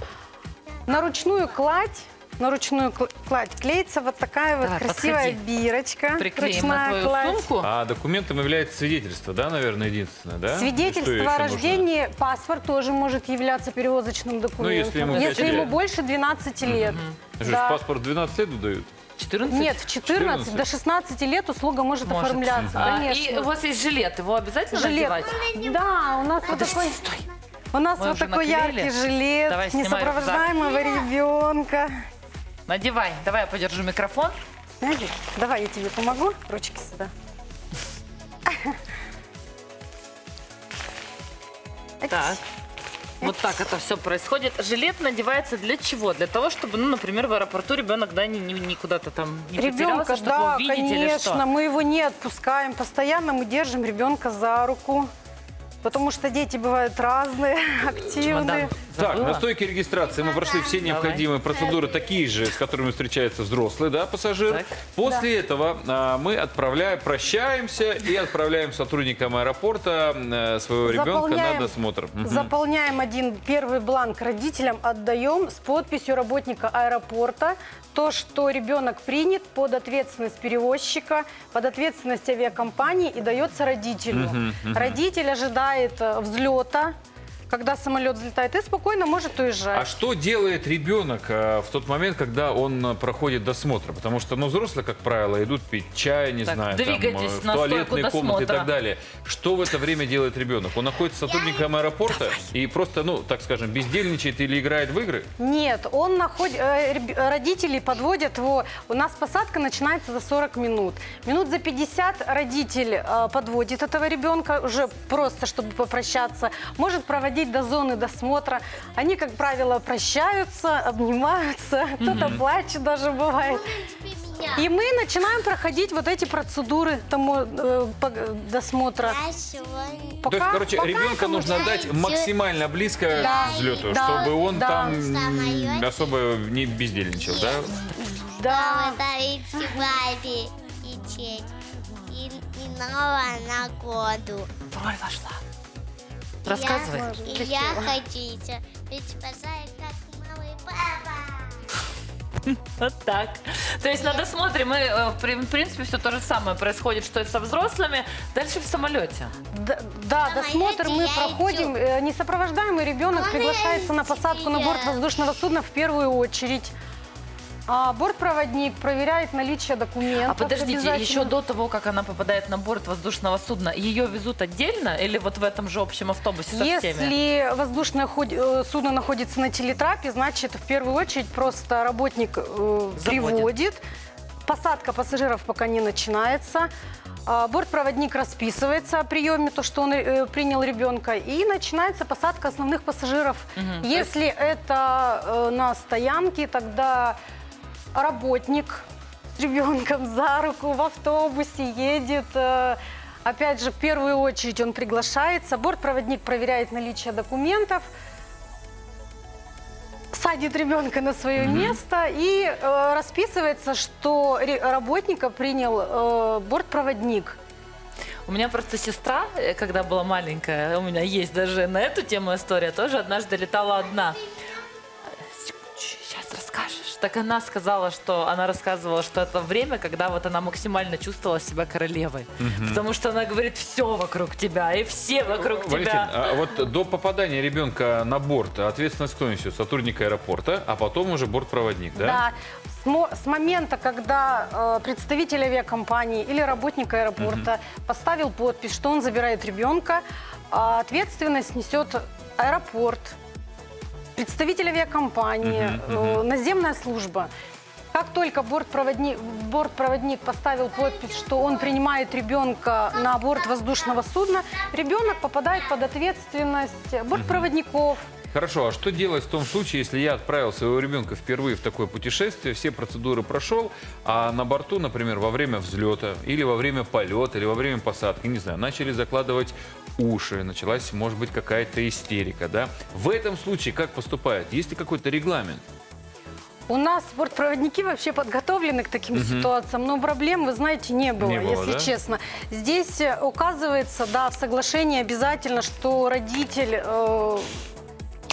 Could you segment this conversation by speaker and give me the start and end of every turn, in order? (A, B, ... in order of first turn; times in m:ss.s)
0:00.9-0:07.5 A
0:04.6-0:05.4 B
0:06.2-0:07.7 B
0:07.6-0:11.9 C
0:10.5-0:17.8 A
0:14.6-0:15.8 C
0:15.0-0:15.7 B
0:16.6-0:18.9 C
0:16.8-0:17.2 B
0:19.2-0:19.8 B
0:19.5-0:23.5 A
0:20.0-0:20.7 C
0:22.0-0:25.4 B
0:22.6-0:22.8 C
0:24.7-0:27.0 A
0:25.4-0:26.9 D
0:26.5-0:27.3 B
0:27.7-0:31.9 A
0:28.0-0:28.9 B
0:29.5-0:30.6 B
0:30.6-0:31.1 D
0:32.7-0:34.3 B
0:34.8-0:37.1 A
0:38.5-0:38.8 A
0:42.0-0:42.4 A
0:42.1-0:42.4 B
0:43.2-0:51.4 B
0:49.6-0:55.1 A
0:55.8-0:58.7 A
0:58.2-0:59.4 B
0:58.8-1:12.5 C
0:59.9-1:00.9 D
1:00.8-1:01.2 B
1:01.5-1:02.2 D
1:04.5-1:04.7 B
1:10.8-1:26.9 A
1:24.1-1:25.0 C
1:27.5-1:29.9 A
1:29.7-1:45.3 C
1:36.4-1:38.7 B
1:41.3-1:41.7 D
1:42.1-1:42.5 B
1:45.4-2:03.7 A
2:02.0-2:02.4 B
2:02.1-2:02.4 C
2:03.4-2:04.7 D
2:04.5-2:09.2 A
2:09.0-2:10.2 D
2:10.2-2:11.7 A
2:10.3-2:17.9 C
2:10.8-2:12.3 D
2:13.1-2:15.9 D
2:13.2-2:15.0 A
2:17.2-2:17.6 D
2:17.9-2:19.0 A
2:18.4-2:21.5 D
2:19.5-2:19.8 A
2:22.1-2:24.5 D
2:24.7-2:25.4 B
2:26.4-2:27.1 B
2:26.4-2:31.6 D
2:27.2-2:28.0 A
2:32.5-2:39.3 B
2:34.0-2:34.2 D
2:39.5-2:46.7 A
2:40.2-2:41.7 D
2:43.1-2:45.0 D
2:47.7-2:51.3 A
2:50.2-2:57.1 B
2:56.5-3:03.8 A
3:03.0-3:03.5 B
3:04.4-3:06.7 A
3:07.2-3:17.2 A
3:13.6-3:14.1 B
3:17.9-3:18.8 A
3:19.4-3:27.8 A
3:30.1-3:37.4 A
3:31.4-3:31.8 C
3:31.4-3:31.8 B
3:38.2-3:44.2 B
3:45.2-3:56.1 B
3:52.4-3:52.8 C
3:55.3-4:02.2 C
4:01.9-4:13.2 A
4:07.2-4:07.5 C
4:14.2-4:17.3 A
4:15.4-4:16.2 C
4:17.9-4:28.0 A
4:20.8-4:21.7 D
4:22.9-4:24.0 D
4:24.5-4:25.0 D
4:27.1-4:27.5 C
4:28.3-4:45.6 C
4:46.7-4:57.5 A
4:49.1-4:49.5 C
4:51.2-4:51.9 C